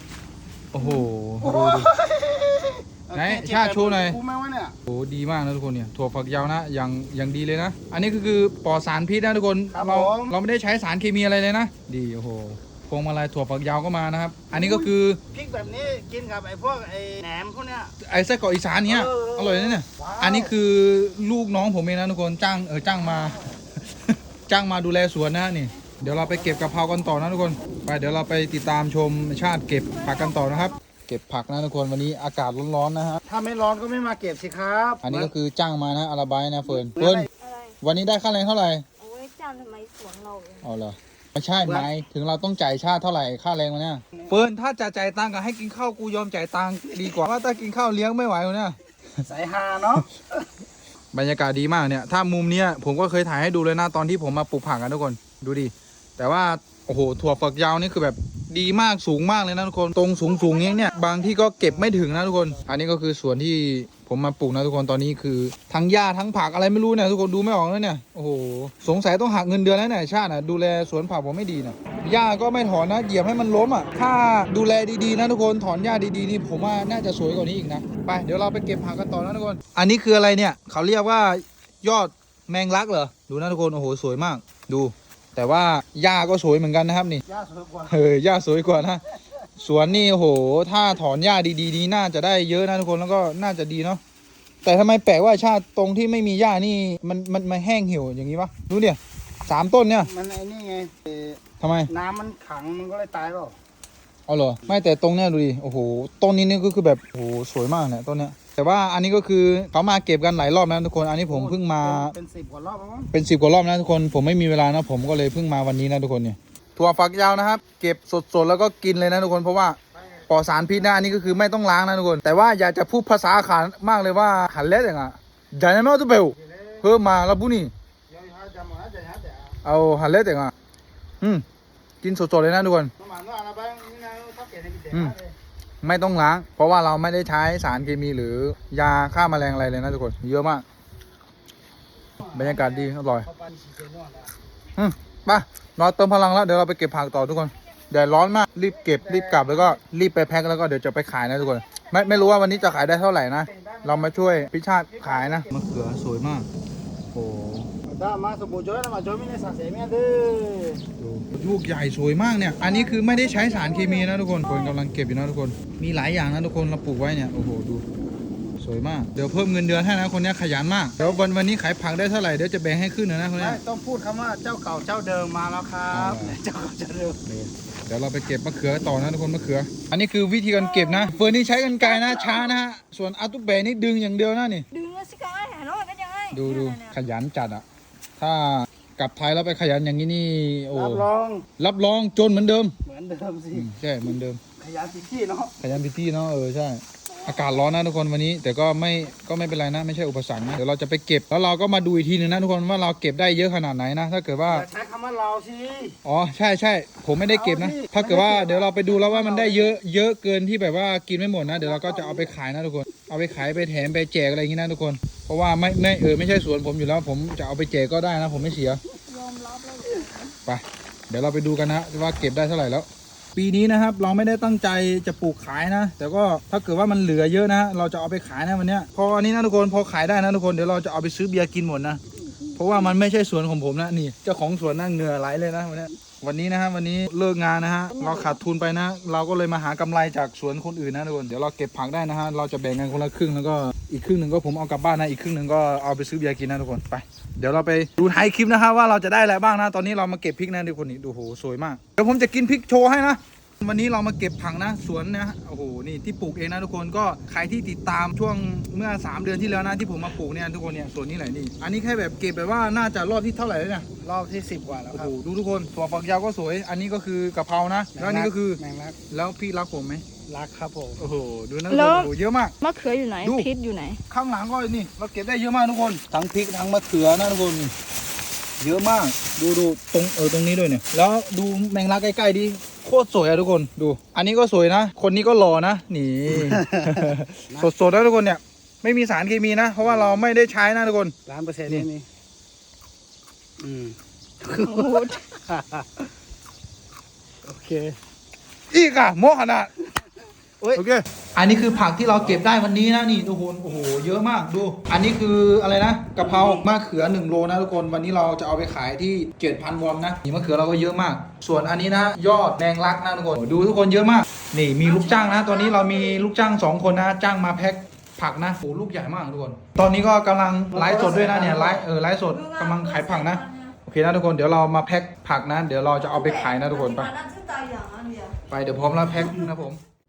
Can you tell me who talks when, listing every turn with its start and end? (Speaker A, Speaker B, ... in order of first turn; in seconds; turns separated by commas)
Speaker A: 0.7-1.9, Speaker B: 1.0-4.8, Speaker A: 3.1-4.2, Speaker A: 4.9-15.2, Speaker B: 9.7-10.3, Speaker B: 14.5-17.9, Speaker A: 18.0-23.4, Speaker B: 18.9-20.5, Speaker B: 23.0-23.4, Speaker A: 24.1-33.2, Speaker C: 29.9-30.8, Speaker B: 33.2-35.3, Speaker A: 35.0-37.3, Speaker B: 36.9-37.3, Speaker C: 37.4-37.8, Speaker A: 37.8-38.9, Speaker C: 39.0-40.7, Speaker A: 40.6-48.8, Speaker B: 41.6-41.9, Speaker B: 49.2-50.1, Speaker A: 51.1-87.2, Speaker C: 60.4-61.2, Speaker B: 61.6-62.6, Speaker B: 87.3-88.0, Speaker A: 87.9-89.0, Speaker A: 89.6-94.0, Speaker A: 94.6-100.1, Speaker B: 100.0-103.6, Speaker A: 101.6-101.9, Speaker A: 104.3-112.2, Speaker B: 111.3-113.1, Speaker A: 113.1-119.8, Speaker B: 120.0-120.8, Speaker A: 120.3-127.7, Speaker B: 126.4-126.8, Speaker B: 128.1-129.5, Speaker A: 129.6-130.5, Speaker A: 132.0-132.9, Speaker B: 133.0-135.3, Speaker A: 134.9-135.2, Speaker A: 135.8-140.6, Speaker B: 142.2-144.3, Speaker A: 142.3-143.3, Speaker A: 144.8-156.5, Speaker B: 149.0-149.8, Speaker B: 153.5-155.5, Speaker A: 157.1-157.7, Speaker B: 157.9-160.8, Speaker A: 161.0-167.8, Speaker C: 162.6-164.7, Speaker A: 168.6-173.6, Speaker B: 173.4-177.2, Speaker A: 175.9-176.4, Speaker A: 177.2-184.7, Speaker C: 180.6-182.6, Speaker C: 184.7-186.9, Speaker A: 186.3-187.6, Speaker A: 188.2-192.8, Speaker B: 190.7-191.5, Speaker B: 192.8-193.7, Speaker A: 193.5-194.4, Speaker B: 194.6-195.6, Speaker A: 195.6-204.7, Speaker B: 204.5-206.0, Speaker A: 206.0-218.8, Speaker B: 207.3-209.8, Speaker B: 211.5-212.3, Speaker C: 219.0-220.3, Speaker A: 220.5-232.0, Speaker A: 232.5-263.9, Speaker B: 264.0-265.1, Speaker A: 264.9-270.1, Speaker B: 267.9-269.0, Speaker B: 270.3-271.0, Speaker A: 271.0-272.5, Speaker C: 271.7-274.0, Speaker A: 273.2-273.5, Speaker A: 274.1-277.7, Speaker A: 278.6-291.1, Speaker B: 286.3-287.7, Speaker B: 289.8-290.2, Speaker B: 291.3-292.1, Speaker B: 293.6-296.1, Speaker C: 294.6-295.3, Speaker B: 297.4-298.0, Speaker A: 298.7-299.7, Speaker B: 299.8-300.1, Speaker A: 300.7-327.1, Speaker B: 306.3-306.6, Speaker C: 314.8-316.2, Speaker B: 320.7-321.8, Speaker C: 322.3-323.8, Speaker C: 326.0-328.4, Speaker A: 328.5-329.8